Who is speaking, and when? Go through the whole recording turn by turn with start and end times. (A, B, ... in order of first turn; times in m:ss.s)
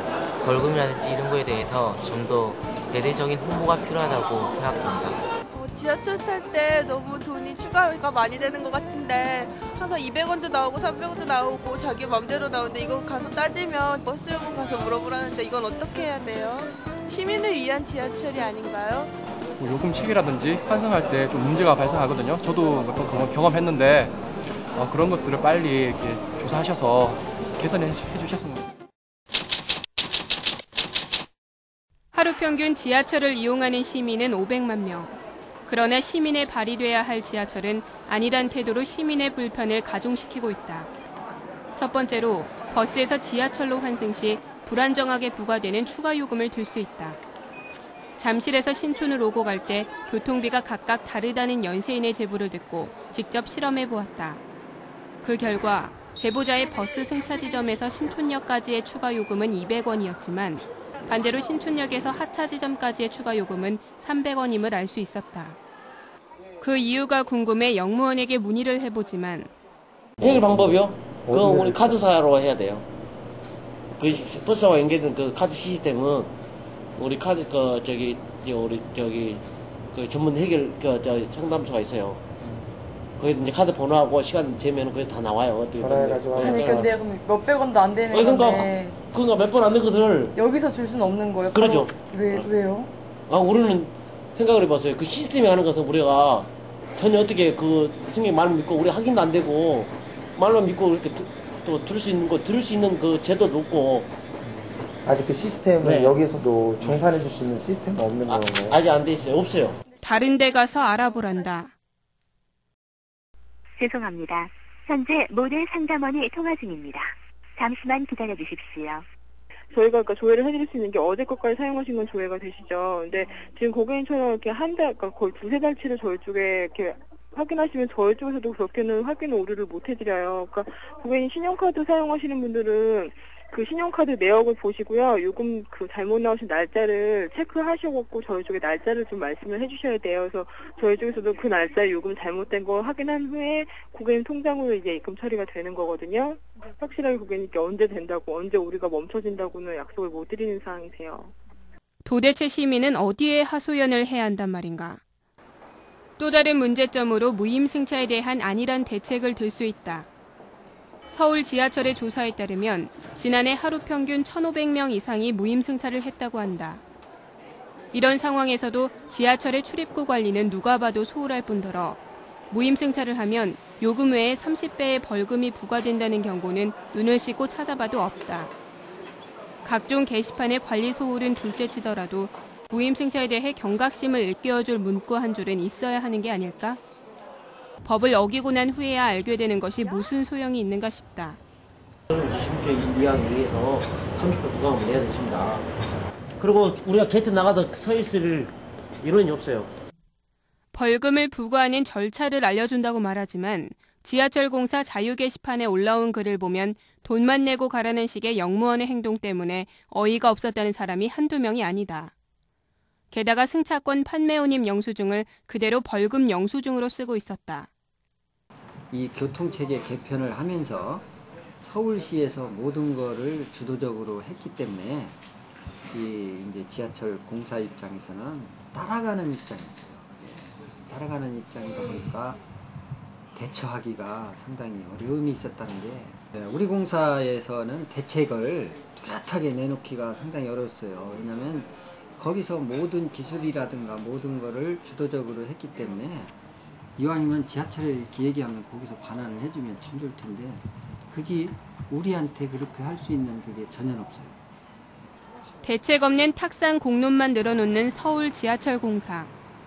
0:00.4-0:05.2 A
0:05.5-0:19.1 B
0:19.6-0:24.2 C
0:24.8-0:28.7 C
0:32.1-0:40.9 D
0:41.8-0:47.2 D
0:48.2-0:54.4 D
0:55.2-1:05.6 D
1:06.6-1:09.5 D
1:10.2-1:12.9 E
1:10.2-1:10.8 F
1:11.3-1:12.0 F
1:14.0-1:16.3 E
1:17.0-1:22.2 E
1:23.2-1:26.9 E
1:25.8-1:26.9 F
1:26.4-1:29.0 G
1:28.1-1:30.4 E
1:30.3-1:32.9 G
1:31.5-1:32.5 E
1:33.3-1:44.1 E
1:45.0-1:48.8 F
1:45.8-1:46.2 E
1:48.2-1:49.8 E
1:50.0-1:51.7 D
1:53.8-1:59.0 H
1:59.7-2:31.3 I
2:32.0-2:35.0 D
2:36.2-2:40.1 D
2:41.1-2:46.8 D
2:47.9-2:52.0 D
2:52.5-2:58.5 D
2:59.6-3:06.8 D
3:07.8-3:11.4 D
3:12.1-3:15.7 E
3:16.4-3:19.7 E
3:20.7-3:32.1 D
3:33.1-3:37.7 D
3:38.9-3:41.0 J
3:41.6-3:45.2 J
3:45.9-3:52.4 J
3:53.4-4:06.3 J
4:07.0-4:14.4 J
4:15.6-4:19.3 D